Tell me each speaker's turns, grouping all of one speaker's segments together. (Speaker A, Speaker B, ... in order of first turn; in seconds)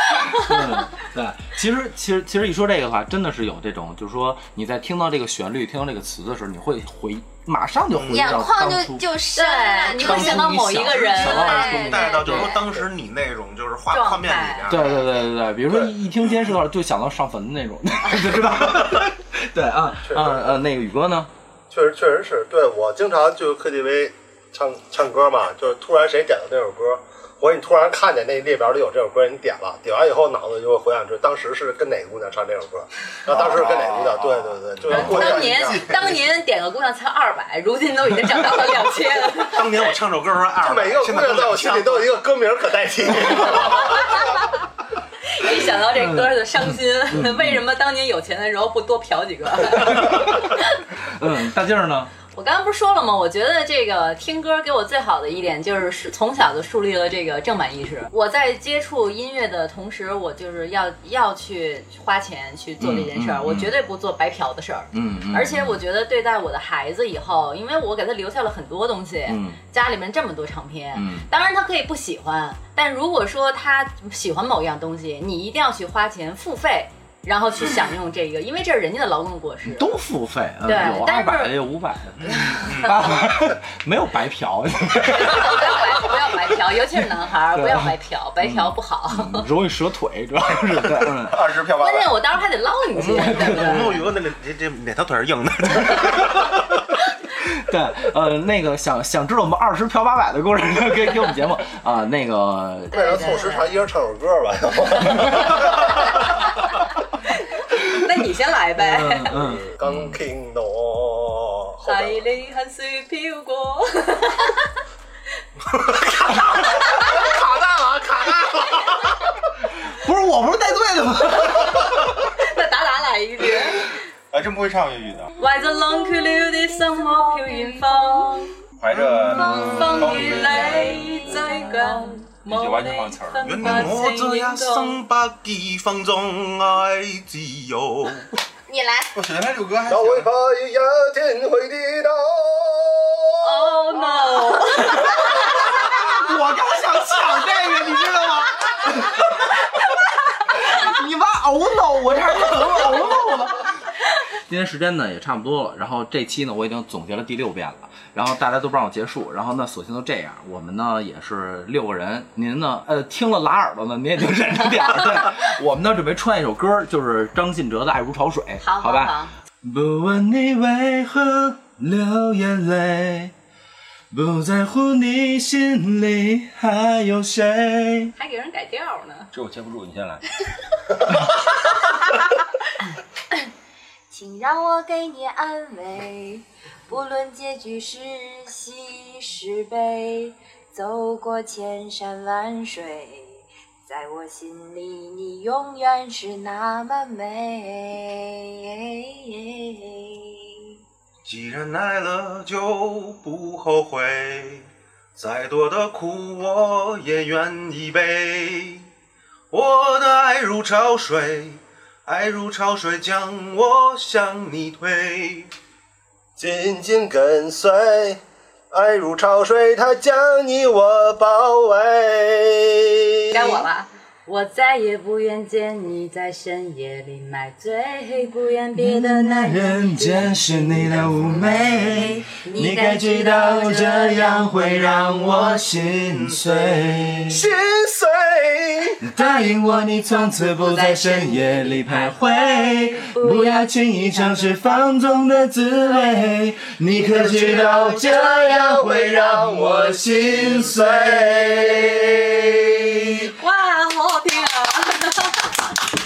Speaker A: 0.3-9.1, 9.9-12.6, 14.7-21.3, 34.9-35.1, 45.9-47.6, 49.6-50.5, 51.1-52.1, 62.8-63.7, 64.9-65.8, 69.3-69.6, 70.9-71.3, 79.7-86.1, 87.5-91.5, 92.9-94.0, 95.8-96.1, 97.4-103.5, 108.8-110.2, 119.8-122.0, 130.2-131.0, 145.7-149.4, 150.5-153.8, 154.4-173.3, 174.1-178.1, 179.5-180.2, 228.7-237.4, 239.0-253.2
Speaker B: 7.9-8.4, 11.3-15.0, 39.4-42.1, 43.2-43.7, 82.2-83.1, 93.1-96.6, 133.4-138.3, 201.2-208.9, 209.5-215.5, 234.7-236.8, 247.3-248.0
Speaker C: 8.1-12.2, 126.3-127.9, 129.3-130.2, 131.0-132.2, 138.7-139.1, 144.3-144.8, 184.1-200.5, 232.5-233.8, 239.2-241.8
Speaker D: 9.3-12.6, 13.9-14.7, 34.9-39.8, 43.8-44.4, 45.2-50.6, 52.3-79.9, 80.6-81.5, 82.3-83.0, 85.1-89.5, 91.8-94.0, 102.9-103.7, 107.4-109.4, 111.8-114.7, 116.5-117.1, 122.2-123.9, 125.4-128.5, 129.3-135.0, 143.4-145.5, 168.6-169.3, 178.2-179.3, 223.3-230.9, 232.4-234.4, 241.9-244.7, 253.3-255.5
Speaker E: 20.0-20.6, 21.7-36.2, 40.6-44.4, 102.9-106.3, 109.3-112.2, 115.7-119.2, 139.9-144.0, 216.4-218.2, 218.7-223.7, 237.3-239.1, 246.9-252.5
Speaker F: 33.3-36.2, 91.2-92.2, 124.3-125.3, 128.8-131.2, 132.4-133.9, 139.1-140.3, 179.4-180.1